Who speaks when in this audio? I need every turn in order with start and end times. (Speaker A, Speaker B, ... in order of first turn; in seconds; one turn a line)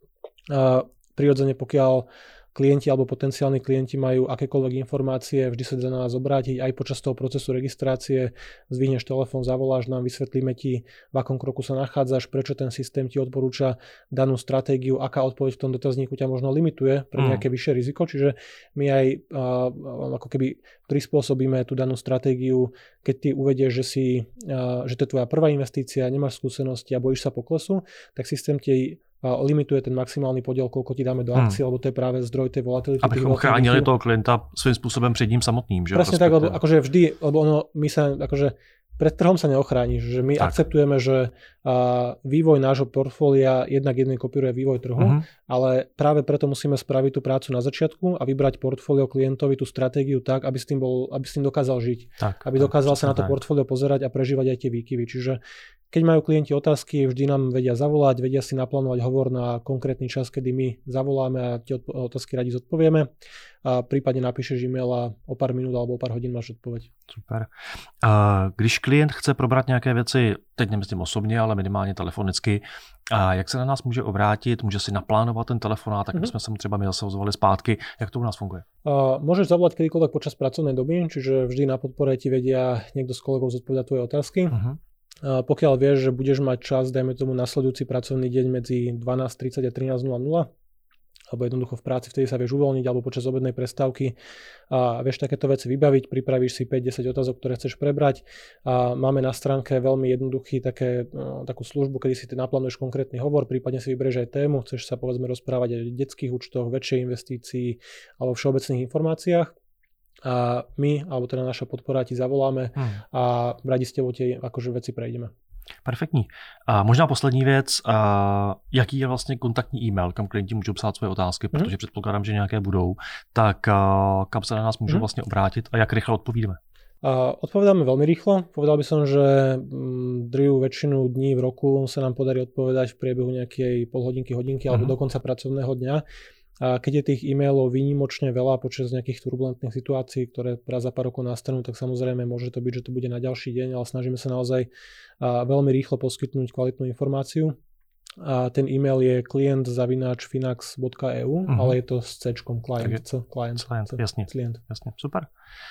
Speaker A: 0.5-33.9
Speaker B: 17.2-17.4
Speaker B: 33.0-36.6
Speaker A: 35.9-55.4
Speaker B: 45.0-45.2
Speaker B: 52.2-53.3
Speaker A: 55.9-63.1
Speaker A: 63.6-66.9
Speaker B: 67.1-78.7
Speaker A: 78.8-84.6
Speaker B: 84.5-84.8
Speaker A: 85.2-90.5
Speaker A: 91.3-94.1
Speaker A: 94.7-109.5
Speaker A: 110.2-115.3
Speaker B: 112.8-113.0
Speaker B: 115.8-126.6
Speaker A: 127.0-136.0
Speaker A: 136.6-144.7
Speaker A: 145.2-147.6
Speaker A: 148.2-154.6
Speaker B: 151.5-151.8
Speaker B: 153.6-155.3